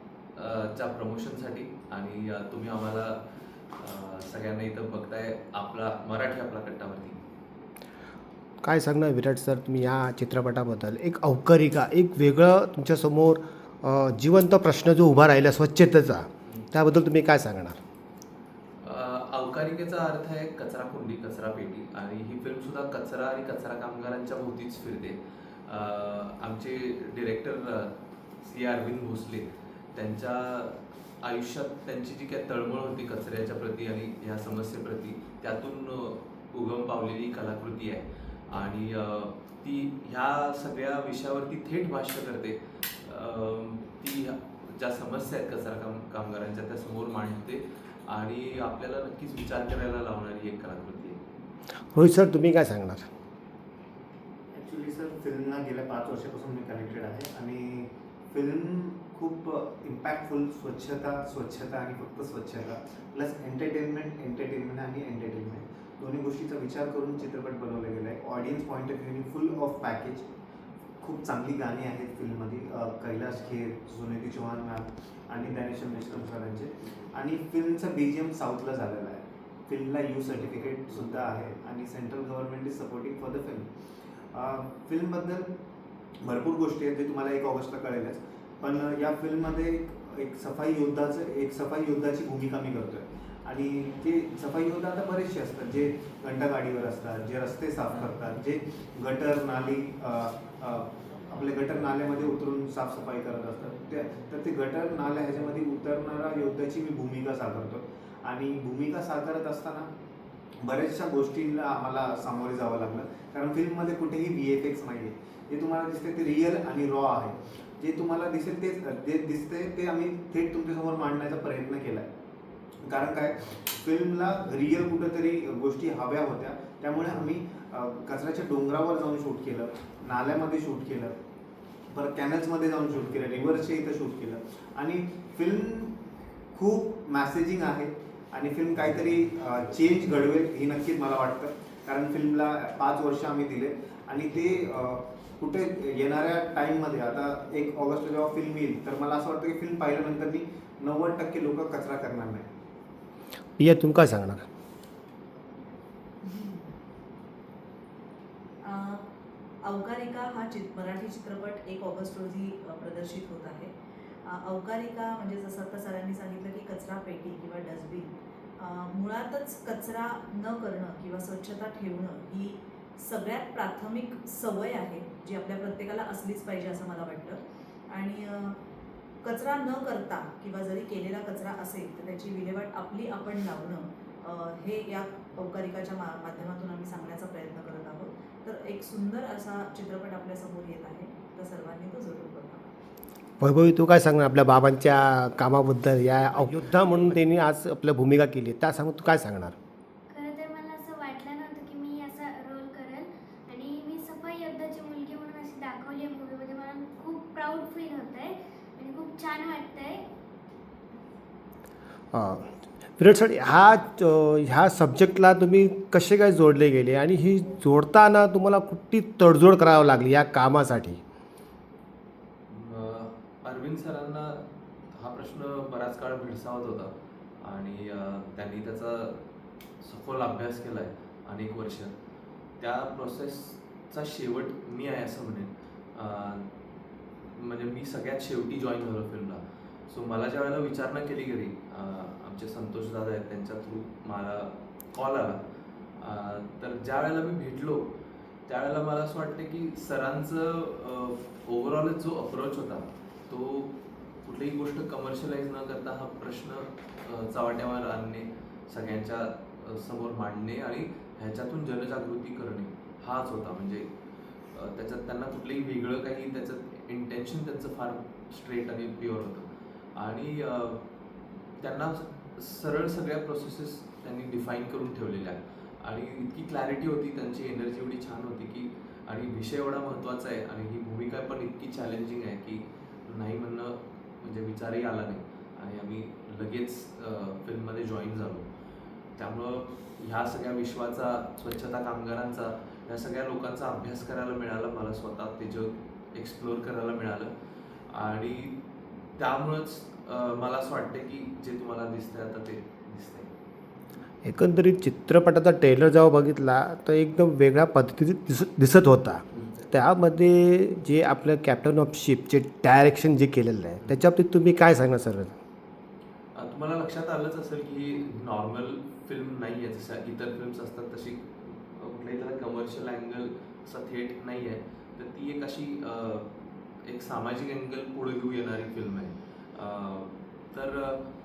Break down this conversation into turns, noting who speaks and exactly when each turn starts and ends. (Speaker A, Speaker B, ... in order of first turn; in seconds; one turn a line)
Speaker A: 0.3-3.2
Speaker A: 3.8-7.2
Speaker B: 8.6-17.8
Speaker A: 18.8-51.2
Speaker B: 51.9-53.1
Speaker C: 54.5-70.2
Speaker C: 71.0-83.7
Speaker C: 84.3-85.5
Speaker C: 86.2-109.9
Speaker C: 110.6-122.1
Speaker C: 122.8-131.1
Speaker C: 131.9-136.0
Speaker C: 136.5-152.4
Speaker B: 153.6-154.4
Speaker D: 156.2-156.7
Speaker D: 158.6-159.1
Speaker D: 159.6-163.7
Speaker D: 164.2-178.6
Speaker D: 179.2-192.7
Speaker B: 193.4-199.5
Speaker E: 200.1-210.0
Speaker B: 212.1-221.0
Speaker A: 222.5-229.2
Speaker A: 229.8-231.9
Speaker A: 232.6-236.5
Speaker A: 237.2-245.4
Speaker A: 246.0-247.9
Speaker A: 248.5-263.9
Speaker A: 264.5-270.8
Speaker A: 271.6-288.4
Speaker A: 289.2-297.3
Speaker A: 297.9-303.3
Speaker B: 304.2-315.4
Speaker A: 309.3-309.6
Speaker A: 316.3-331.1